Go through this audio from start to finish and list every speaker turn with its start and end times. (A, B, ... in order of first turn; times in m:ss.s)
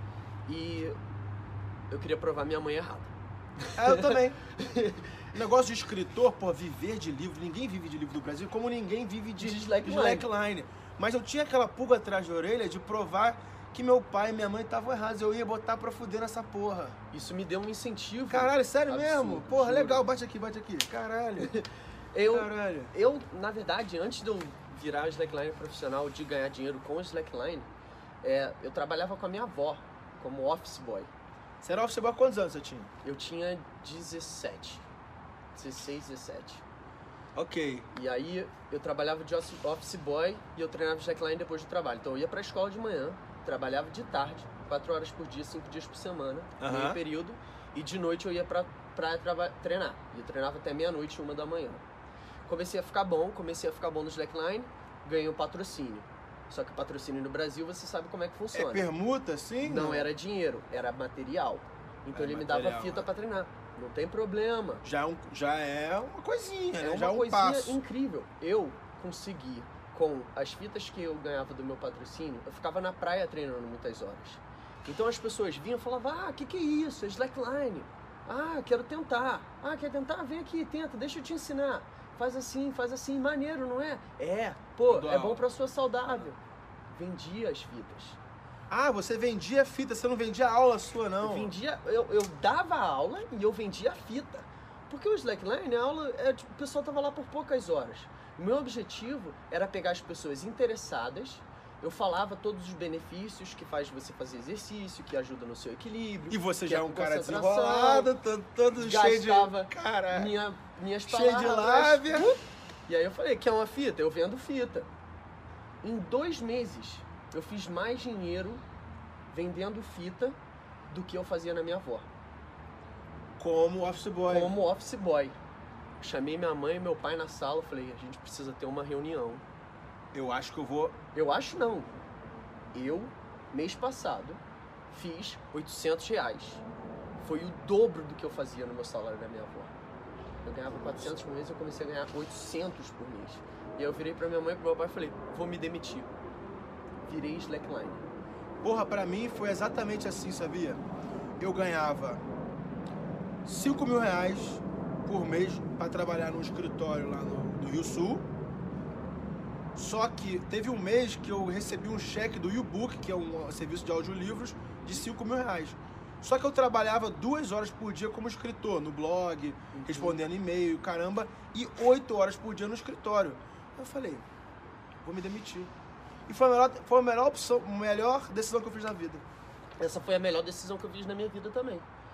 0:00.5-0:01.0 A
0:01.9-0:05.2 A
0:03.7-0:04.4 B
0:05.3-0:17.0 B
0:09.4-0:10.3 A
0:17.1-0:20.1 A
0:18.3-0:21.6 B
0:21.5-0:27.7 A
0:22.3-0:22.9 B
0:28.2-0:31.1 A
0:31.6-0:32.9 B
0:33.0-0:34.8 A
0:35.6-0:36.6 A
0:37.4-0:37.9 B
0:37.9-0:51.8 A
0:46.6-0:47.0 B
0:52.5-0:58.9 A
0:58.5-1:00.1 B
0:59.6-1:04.8 A
1:02.1-1:03.1 B
1:04.8-1:07.8 B
1:06.8-1:26.4 A
1:24.9-1:25.4 B
1:26.9-1:28.2 A
1:28.7-1:31.5 B
1:31.2-1:48.1 A
1:46.3-1:50.4 B
1:48.8-1:54.9 A
1:51.1-1:52.3 B
1:55.8-1:58.6 A
1:59.3-2:00.4 A
2:00.9-2:02.1 A
2:03.4-2:04.6 B
2:04.3-2:05.4 A
2:06.0-2:09.4 A
2:10.1-2:11.0 B
2:11.1-2:12.0 A
2:12.7-2:14.4 A
2:14.9-2:16.6 A
2:17.2-2:19.7 A
2:20.4-2:26.1 A
2:20.8-2:21.1 B
2:27.1-2:28.0 A
2:28.6-2:30.8 B
2:31.4-2:32.2 B
2:33.4-2:38.3 B
2:39.8-2:54.2 B
2:49.7-2:50.2 A
2:55.0-2:55.7 B
2:56.3-2:59.2 B
2:59.8-3:01.9 A